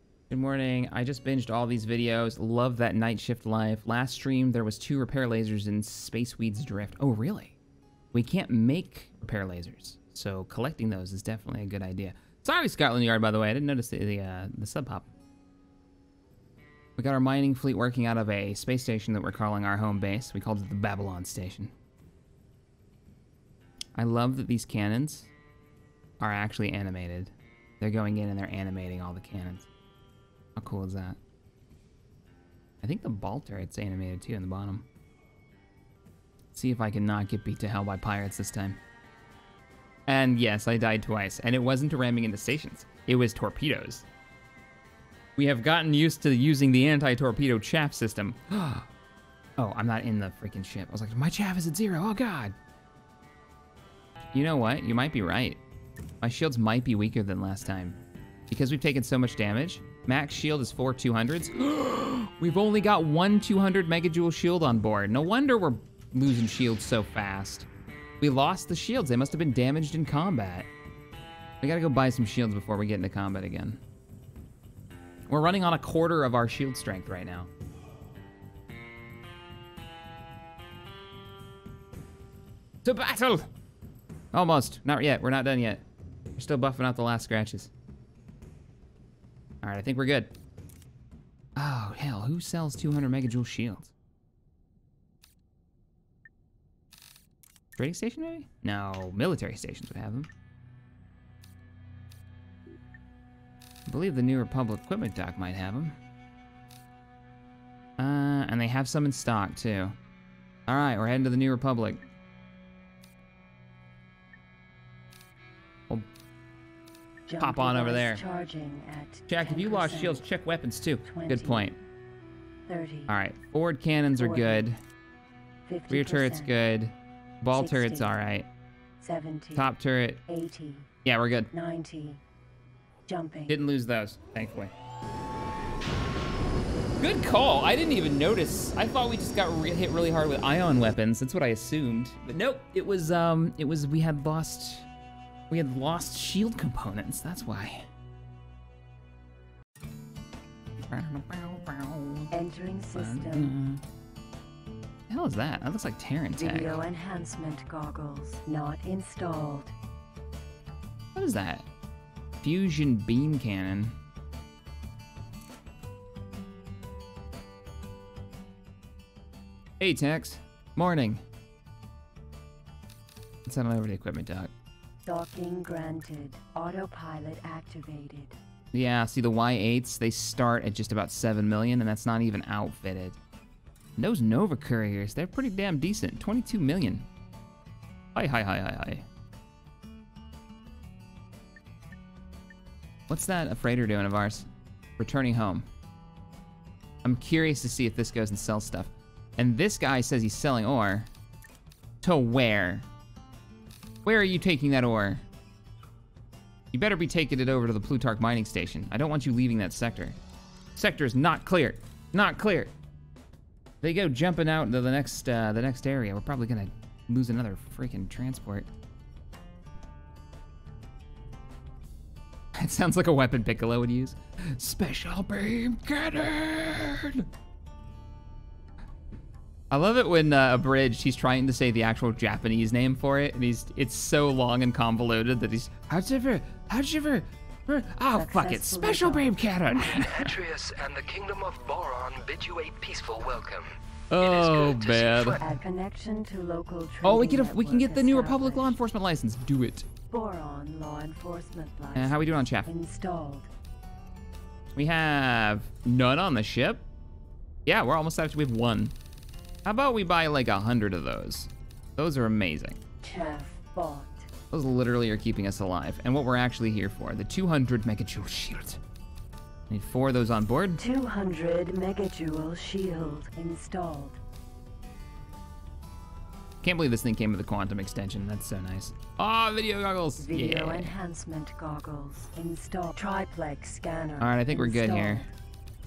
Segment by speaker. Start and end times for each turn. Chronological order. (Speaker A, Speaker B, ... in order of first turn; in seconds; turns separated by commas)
Speaker A: 0.3-7.6, Speaker A: 8.1-15.1, Speaker A: 17.0-21.7, Speaker A: 24.0-25.3, Speaker A: 26.2-29.7, Speaker A: 30.6-31.2, Speaker A: 32.8-34.9, Speaker A: 36.5-38.8, Speaker A: 40.1-44.1, Speaker A: 45.4-48.9, Speaker A: 49.6-52.6, Speaker A: 54.3-55.6, Speaker A: 56.2-58.0, Speaker A: 58.5-67.7, Speaker A: 68.2-70.7, Speaker A: 71.6-73.8, Speaker A: 75.3-77.5, Speaker A: 82.8-83.5, Speaker A: 84.3-85.8, Speaker A: 86.4-87.7, Speaker A: 89.6-90.3, Speaker A: 91.6-93.9, Speaker A: 97.8-100.3, Speaker A: 103.9-106.0, Speaker A: 108.0-110.0, Speaker A: 110.7-112.0, Speaker B: 117.3-120.3, Speaker A: 117.4-118.2, Speaker A: 119.3-121.8, Speaker B: 121.0-121.7, Speaker B: 122.7-123.1, Speaker A: 123.1-124.8, Speaker B: 124.2-124.7, Speaker B: 125.7-126.5, Speaker A: 125.9-128.5, Speaker B: 127.5-128.1, Speaker B: 129.0-129.7, Speaker A: 129.6-130.2, Speaker B: 130.3-130.9, Speaker A: 131.1-131.5, Speaker B: 131.5-132.2, Speaker B: 133.1-133.6, Speaker A: 133.5-134.7, Speaker A: 137.0-144.9, Speaker A: 145.5-147.9, Speaker A: 150.9-152.3, Speaker B: 152.3-153.5, Speaker A: 152.9-153.8, Speaker A: 155.1-156.9, Speaker B: 156.4-159.8, Speaker A: 161.2-161.7, Speaker A: 162.4-164.0, Speaker A: 169.8-171.2, Speaker A: 173.5-174.5, Speaker B: 175.1-178.4, Speaker A: 178.7-183.2, Speaker A: 184.0-187.1, Speaker A: 188.2-189.1, Speaker A: 193.1-195.7, Speaker A: 197.0-201.1, Speaker A: 202.0-202.9, Speaker A: 204.0-205.2, Speaker A: 206.7-210.2, Speaker A: 210.8-212.7, Speaker A: 213.8-218.7, Speaker A: 222.6-227.3, Speaker A: 229.7-240.4, Speaker B: 238.1-239.7, Speaker C: 239.8-245.4, Speaker A: 244.1-245.4, Speaker B: 245.4-248.8, Speaker A: 247.0-249.9, Speaker B: 250.1-253.5, Speaker A: 251.9-252.7, Speaker A: 254.8-256.9, Speaker A: 257.7-258.9, Speaker A: 259.6-262.8, Speaker B: 263.0-264.3, Speaker A: 264.5-268.8, Speaker A: 269.7-270.8, Speaker B: 270.8-274.2, Speaker A: 276.6-280.9, Speaker B: 280.2-285.3, Speaker A: 284.2-285.3